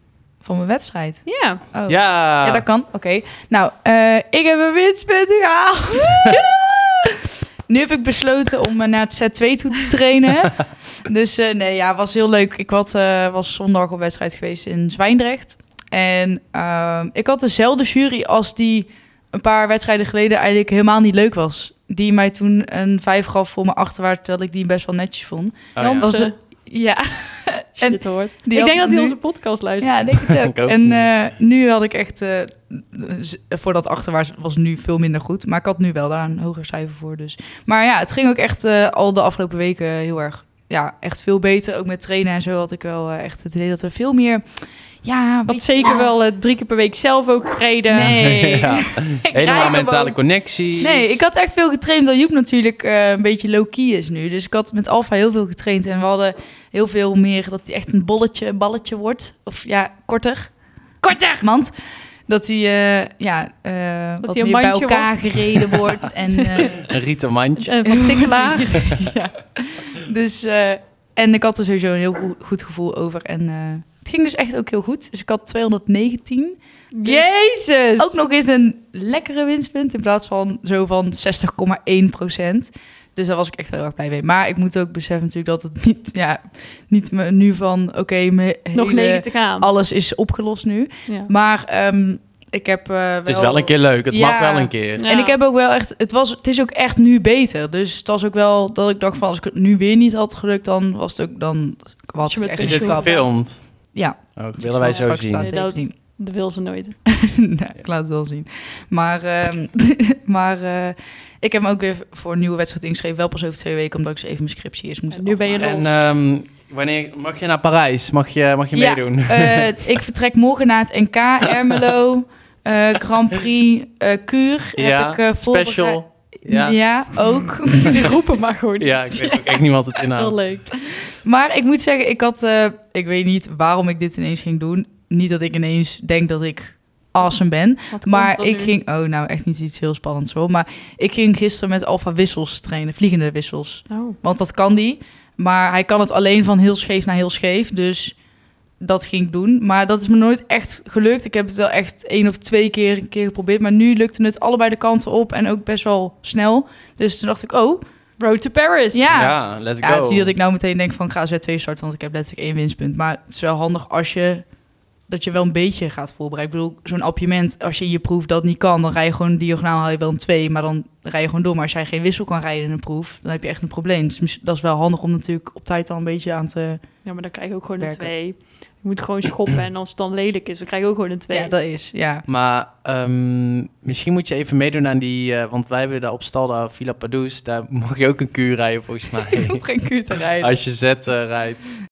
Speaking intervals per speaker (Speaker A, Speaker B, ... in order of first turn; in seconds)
Speaker A: 0.4-29.2, 29.8-44.4, 45.0-46.0, 47.9-50.2, 50.8-60.5, 61.4-61.7, 62.3-66.8, 67.8-77.4, 78.0-103.4, 103.9-105.9, 107.1-115.8, 118.7-128.2, 131.1-148.2, 148.8-157.8, 158.9-164.4, 165.1-176.8, 177.8-178.1, 181.3-182.2, 189.3-190.6
Speaker B: 1.2-1.6, 25.8-26.3, 27.8-30.0, 45.5-48.1, 61.0-61.4, 64.2-66.1, 67.6-68.8, 76.9-78.2, 88.7-89.7, 95.0-95.4, 102.2-103.3, 104.9-106.9, 115.1-115.9, 127.8-129.6, 130.1-130.7, 137.9-138.7, 143.9-144.2, 158.2-159.1, 177.0-181.5
Speaker C: 1.9-2.6, 25.8-26.1, 30.2-31.1, 48.0-51.0, 66.8-67.7, 93.3-95.0, 102.6-105.5, 115.6-119.9, 124.8-126.8, 128.8-130.4, 159.1-160.3, 182.3-189.6, 190.4-191.6